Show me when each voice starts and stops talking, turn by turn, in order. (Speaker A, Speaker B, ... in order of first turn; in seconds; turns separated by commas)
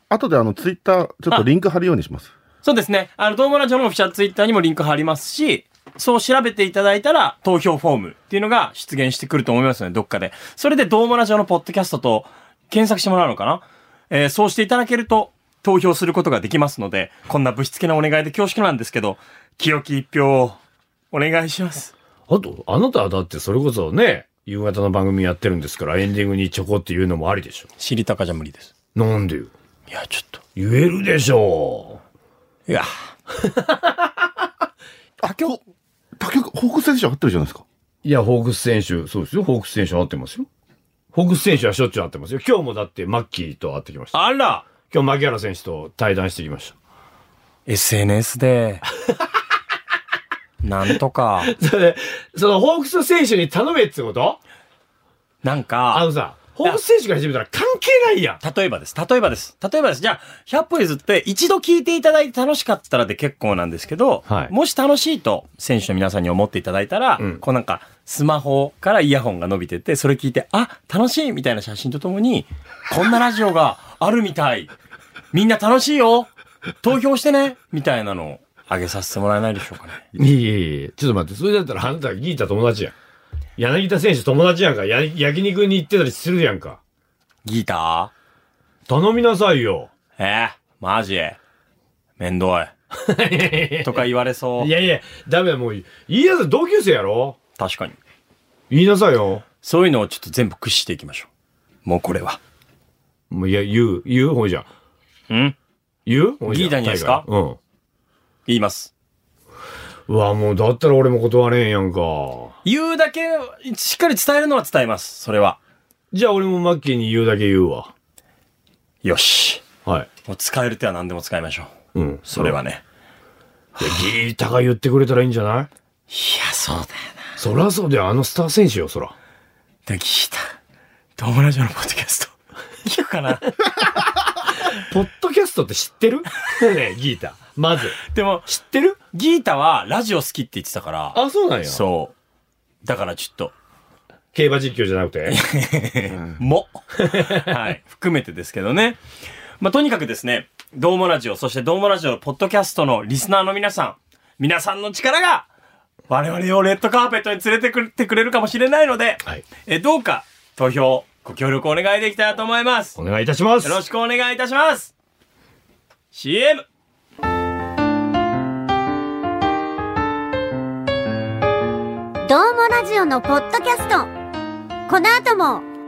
Speaker A: 0.1-2.3, Speaker B: 2.6-20.6, Speaker B: 21.1-21.9, Speaker C: 22.3-27.7, Speaker B: 27.8-28.7, Speaker C: 28.9-29.5, Speaker B: 29.9-30.4, Speaker C: 30.6-32.0, Speaker B: 32.7-32.9, Speaker C: 33.4-34.1, Speaker A: 35.2-35.6, Speaker B: 35.3-35.5, Speaker A: 36.2-37.6, Speaker C: 38.0-40.5, Speaker C: 41.1-46.8, Speaker B: 44.1-44.7, Speaker B: 47.7-48.8, Speaker B: 50.6-51.5, Speaker C: 51.4-54.4, Speaker B: 55.4-56.1, Speaker C: 55.9-58.4, Speaker B: 58.4-74.7, Speaker C: 64.3-64.5, Speaker B: 75.3-76.3, Speaker B: 76.8-80.1, Speaker C: 80.2-82.9, Speaker C: 83.6-86.8, Speaker B: 87.5-88.1, Speaker C: 88.9-89.9, Speaker B: 90.2-91.4, Speaker B: 92.2-92.7, Speaker C: 92.9-94.0, Speaker B: 93.8-94.7, Speaker C: 94.6-97.4, Speaker B: 97.6-98.0, Speaker C: 98.7-99.5, Speaker B: 99.6-101.3, Speaker B: 101.8-102.4, Speaker C: 103.3-104.7, Speaker B: 105.3-105.6, Speaker C: 106.1-107.6, Speaker B: 106.5-107.2, Speaker B: 108.5-108.9, Speaker C: 110.1-112.5, Speaker B: 112.7-115.6, Speaker C: 116.1-117.9, Speaker B: 119.0-119.7, Speaker B: 120.3-121.7, Speaker C: 121.9-122.6, Speaker B: 122.3-122.8, Speaker C: 123.8-125.7, Speaker B: 126.1-127.3, Speaker C: 127.4-129.1, Speaker B: 129.9-130.5, Speaker B: 131.2-133.5, Speaker C: 134.6-139.0, Speaker B: 138.1-138.5, Speaker B: 139.1-142.1, Speaker C: 141.1-141.8, Speaker B: 142.8-143.5, Speaker C: 144.3-145.4, Speaker B: 145.3-149.0, Speaker C: 147.0-147.5, Speaker B: 149.6-155.5, Speaker B: 156.1-163.0, Speaker C: 163.0-163.8, Speaker B: 163.6-164.9, Speaker B: 166.1-166.7, Speaker D: 172.3-174.1, Speaker D: 174.9-175.7